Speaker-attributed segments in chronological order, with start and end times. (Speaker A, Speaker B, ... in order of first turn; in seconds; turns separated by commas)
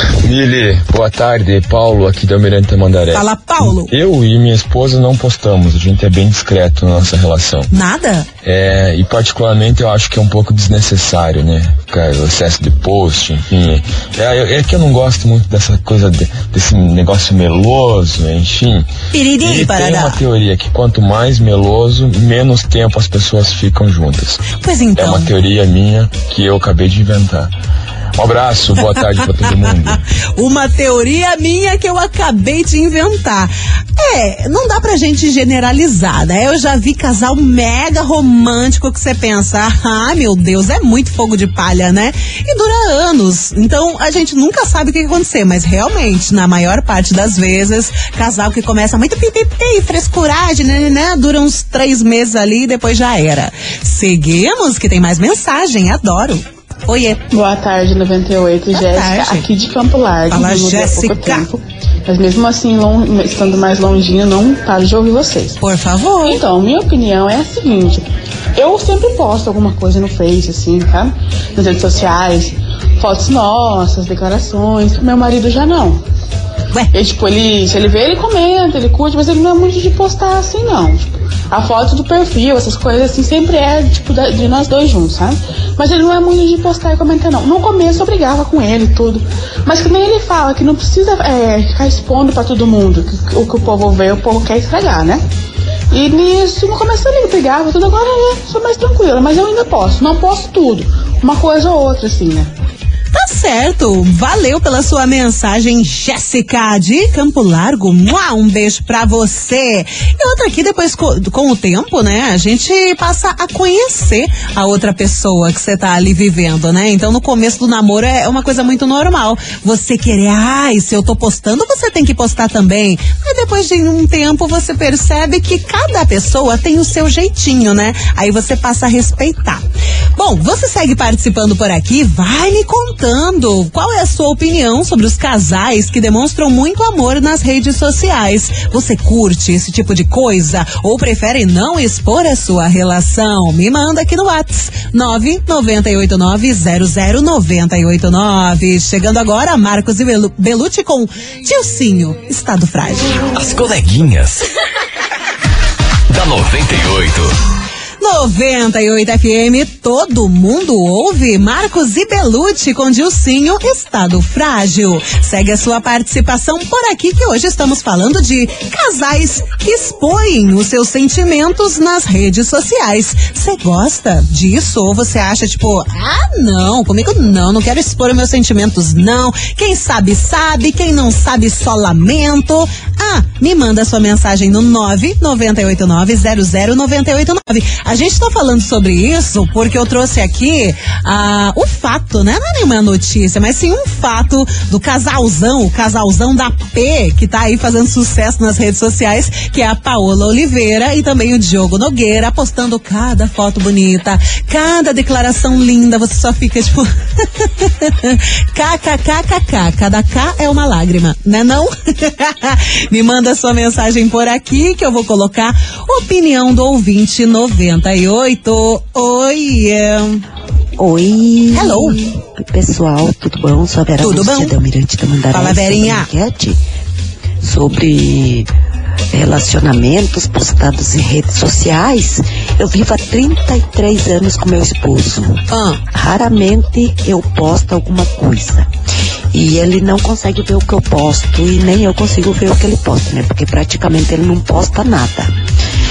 Speaker A: 0.2-7.7, Speaker B: 3.1-3.9, Speaker B: 7.7-8.3, Speaker A: 8.4-27.5, Speaker B: 19.1-20.2, Speaker B: 24.6-25.3, Speaker A: 28.1-30.0, Speaker B: 28.9-29.7, Speaker B: 30.4-57.2, Speaker C: 57.3-65.6, Speaker B: 58.7-59.5, Speaker B: 60.3-61.5, Speaker B: 65.6-66.4, Speaker C: 66.2-68.0, Speaker C: 68.5-76.0, Speaker C: 76.9-95.2, Speaker C: 95.9-102.5, Speaker B: 103.1-129.6, Speaker B: 130.2-153.2, Speaker D: 153.3-154.4, Speaker D: 156.1-157.3, Speaker B: 158.0-220.2, Speaker E: 220.8-226.6, Speaker B: 221.5-222.0, Speaker B: 224.0-224.5, Speaker B: 225.3-226.1, Speaker E: 227.4-228.5, Speaker E: 229.1-238.7, Speaker B: 235.5-235.8, Speaker E: 239.3-245.3